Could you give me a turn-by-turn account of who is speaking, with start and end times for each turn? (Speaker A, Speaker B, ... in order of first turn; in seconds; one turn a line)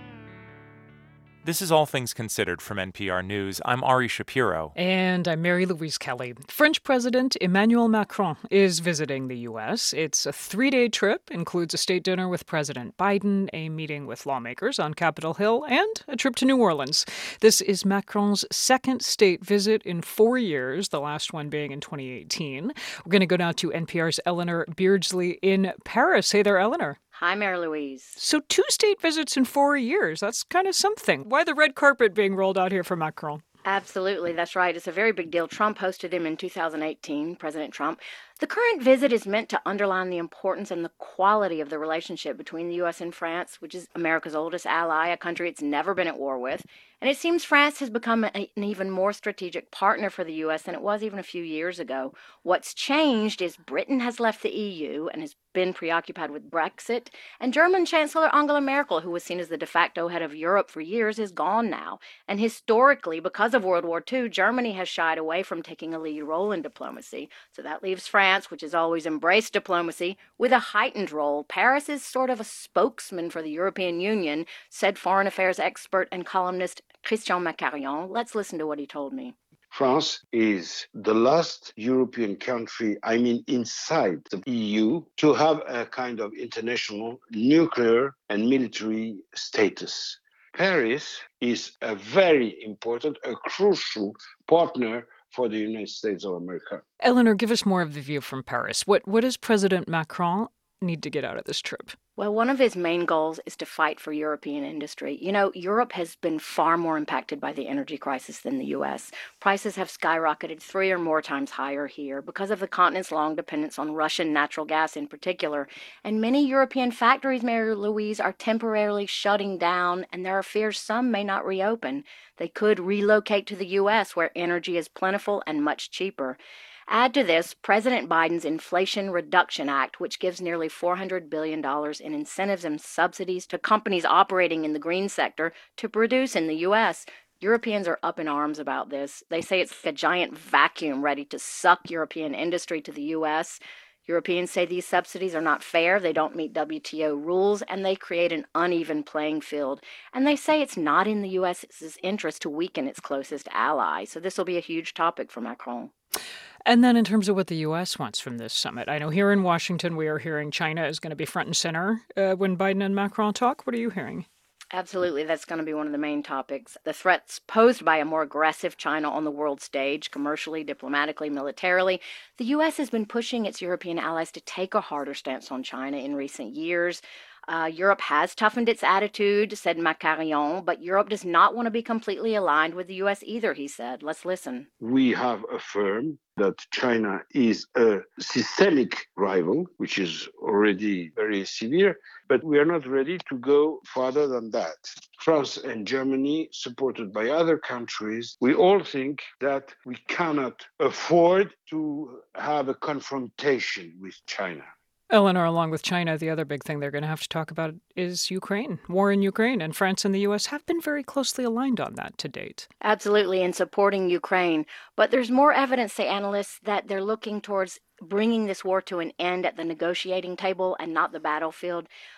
Speaker A: 1.4-4.7
Speaker B: 4.8-27.0
Speaker C: 27.1-28.2
Speaker B: 28.2-33.4
Speaker C: 33.6-79.3
Speaker D: 79.7-96.8
Speaker B: 97.0-102.0
Speaker C: 102.2-155.9
Speaker B: 156.7-164.3
Speaker C: 164.7-184.7
Speaker D: 184.8-204.7
Speaker B: 205.1-212.7
Speaker C: 212.8-221.9